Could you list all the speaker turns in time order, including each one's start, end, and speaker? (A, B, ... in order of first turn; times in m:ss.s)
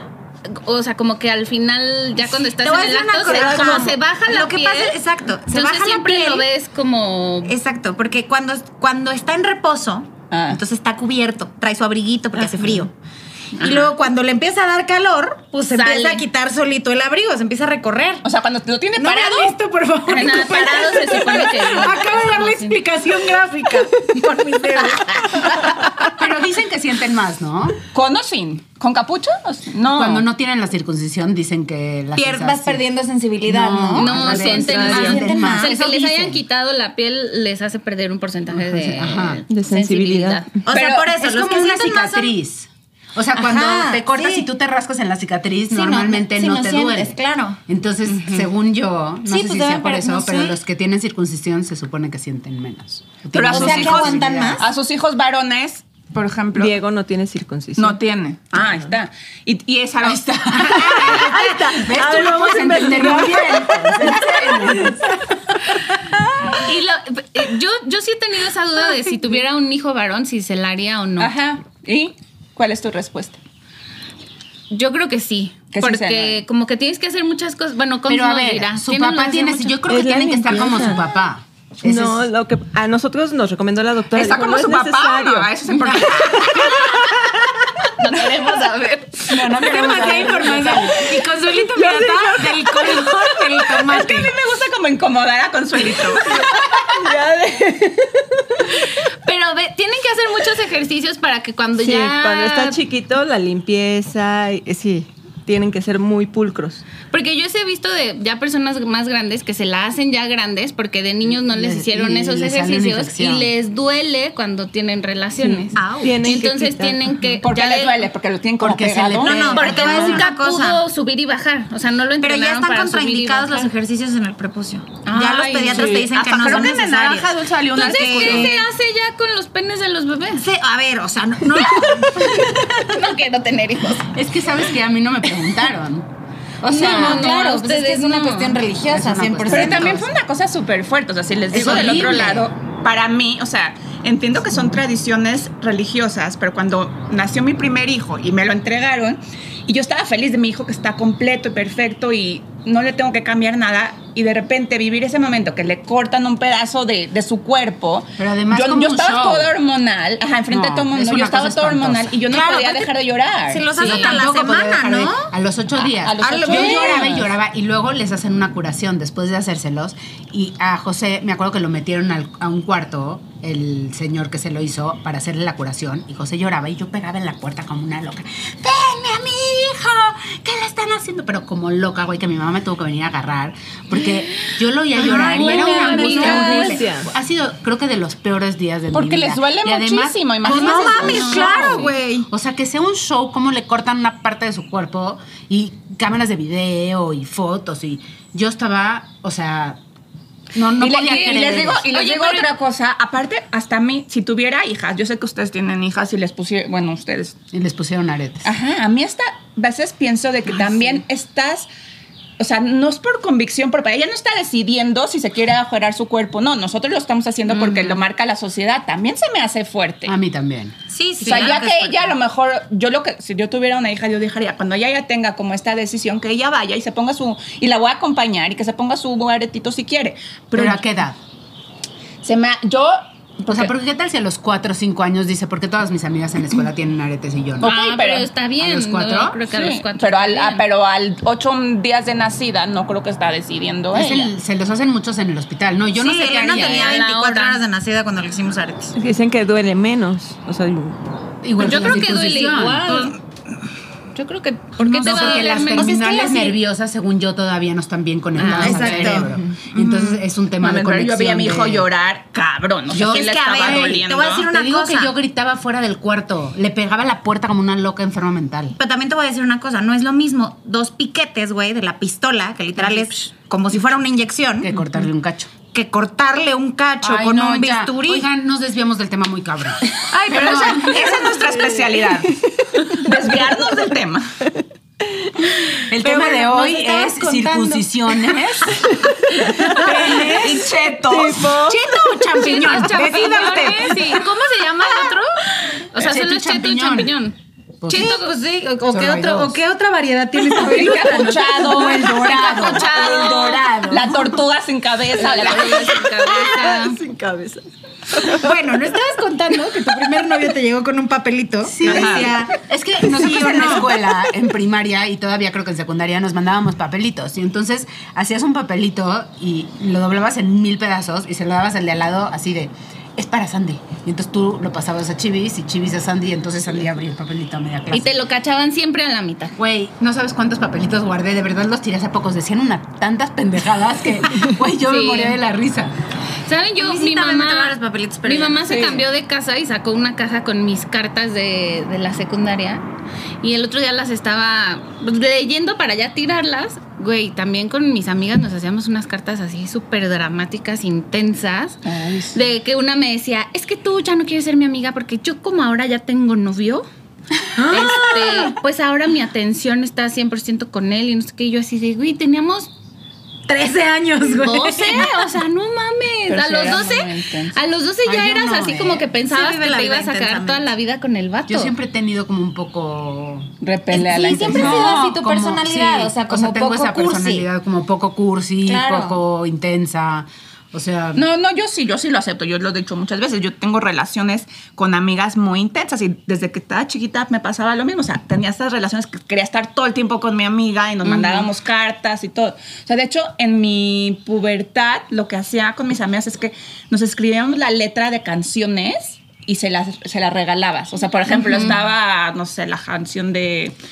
0:00.5-0:05.0 A
0:02.4-0:06.5 B
0:03.3-0:03.8 C
0:05.5-0:07.6 A
0:07.5-0:12.9 B
0:10.3-0:10.6 D
0:13.6-0:13.9 A
0:13.6-0:18.2 B
0:15.8-0:16.2 A
0:18.2-0:19.6 D
0:19.0-0:19.6 B
0:19.3-0:25.0 E
0:20.1-0:22.8 A
0:20.1-0:20.9 D
0:23.2-0:25.5 B
0:26.1-0:27.8 E
0:27.9-0:30.3 D
0:29.9-0:32.8 E
0:32.2-0:35.8 B
0:33.5-0:36.4 E
0:33.9-0:40.5 A
0:34.5-0:35.2 C
0:38.5-0:39.4 E
0:39.5-0:40.6 C
0:40.7-0:42.3 B
0:40.7-0:41.1 D
0:41.2-0:54.7 E
0:43.4-0:44.4 B
0:45.7-0:47.6 B
0:49.2-0:50.6 B
0:53.3-0:56.8 D
0:53.5-0:54.7 B
0:56.6-0:58.0 C
0:57.8-1:01.0 D
1:00.0-1:05.4 E
1:00.8-1:05.1 C
1:06.4-1:06.6 C
1:06.6-1:11.3 A
1:11.2-1:13.4 D
1:14.7-1:19.8 A
1:15.7-1:16.4 D
1:18.1-1:22.3 E
1:19.9-1:21.0 C
1:21.8-1:25.5 C
1:24.2-1:27.0 D
1:26.1-1:26.6 C
1:28.0-1:29.4 A
1:29.3-1:31.3 E
1:29.6-1:34.3 B
1:31.8-1:32.1 C
1:33.5-1:36.5 D
1:36.2-1:38.7 C
1:39.2-1:42.8 A
1:41.8-1:46.8 C
1:47.1-1:58.1 A
1:51.3-1:53.5 E
1:55.4-1:57.1 C
1:55.8-1:56.4 B
1:57.4-2:00.0 D
1:58.6-2:00.2 E
1:59.2-2:00.8 B
1:59.5-2:03.7 A
2:02.2-2:08.6 B
2:05.0-2:06.1 A
2:05.7-2:08.6 D
2:07.8-2:10.5 A
2:10.4-2:12.8 B
2:12.8-2:14.1 A
2:14.1-2:16.1 E
2:16.6-2:17.4 E
2:16.7-2:18.6 A
2:16.7-2:20.1 B
2:18.6-2:20.1 E
2:19.5-2:43.7 D
2:21.5-2:22.4 E
2:21.5-2:22.4 B
2:38.2-2:39.5 E
2:40.5-2:42.2 E
2:42.3-2:42.9 B
2:43.5-2:45.3 B
2:43.8-3:19.8 E
2:43.8-2:44.2 A
2:45.9-2:47.3 D
2:46.2-2:47.1 B
3:05.0-3:06.8 B
3:05.0-3:06.8 A
3:05.7-3:07.1 C
3:08.9-3:11.9 D
3:10.4-3:12.3 B
3:11.0-3:11.9 A
3:20.5-3:22.0 E
3:20.8-3:27.4 D
3:21.9-3:22.5 A
3:27.5-3:28.5 E
3:28.4-3:31.7 D
3:32.4-3:40.2 D
3:37.6-3:37.9 A
3:40.1-3:40.8 E
3:40.9-3:42.1 B
3:41.2-3:50.8 D
3:50.5-3:51.2 E
3:52.2-3:53.7 D
3:53.5-3:57.7 E
3:57.6-3:58.3 D
3:57.6-4:00.6 A
3:58.6-3:59.4 E
3:59.5-4:04.3 D
4:03.9-4:07.1 E
4:06.0-4:08.9 B
4:06.4-4:07.6 A
4:08.9-4:11.0 C
4:11.4-4:13.1 E
4:11.6-4:13.2 A
4:14.1-4:16.1 A
4:14.8-4:16.6 B
4:14.9-4:21.9 E
4:18.4-4:19.2 A
4:18.5-4:20.2 B
4:19.2-4:19.6 C
4:20.6-4:24.5 D
4:22.9-4:28.8 E
4:23.0-4:25.1 B
4:28.8-4:34.8 B
4:34.6-4:35.5 E
4:35.7-4:38.2 B
4:37.0-4:41.0 E
4:40.1-4:41.5 B
4:40.2-4:44.3 D
4:41.7-4:43.0 C
4:44.5-4:45.8 C
4:45.9-4:48.9 E
4:46.0-4:47.8 B
4:49.5-4:50.5 B
4:49.6-4:50.3 C
4:49.7-4:50.7 E
4:49.8-4:51.6 D
4:51.1-4:51.8 C
4:51.7-4:54.2 E
4:51.7-4:54.0 B
4:52.4-4:57.4 A
4:56.0-4:57.1 E
4:57.8-4:58.2 E
4:57.9-5:02.0 B
4:57.9-4:58.2 A
4:58.9-4:59.6 E
5:00.4-5:04.4 E
5:00.5-5:06.0 D
5:02.2-5:03.7 A
5:05.2-5:07.0 A
5:05.6-5:08.6 C
5:08.3-5:14.0 B
5:11.7-5:28.2 E
5:11.8-5:12.3 D
5:27.9-5:29.6 A
5:29.6-5:36.0 E
5:34.8-5:35.4 A
5:36.4-5:42.8 A
5:36.8-5:38.8 B
5:38.7-5:39.0 D
5:43.4-5:51.8 A
5:51.8-5:52.4 D
5:52.3-5:56.9 A
5:57.6-5:58.5 E
5:57.6-6:02.7 A
6:03.5-6:04.5 B
6:04.0-6:05.2 E
6:04.4-6:11.7 A
6:06.3-6:07.6 D
6:08.0-6:09.1 E
6:09.2-6:10.7 B
6:11.5-6:13.5 E
6:13.6-6:15.0 D
6:13.9-6:17.5 B
6:14.2-6:21.2 E
6:18.7-6:19.2 B
6:21.2-6:43.8 D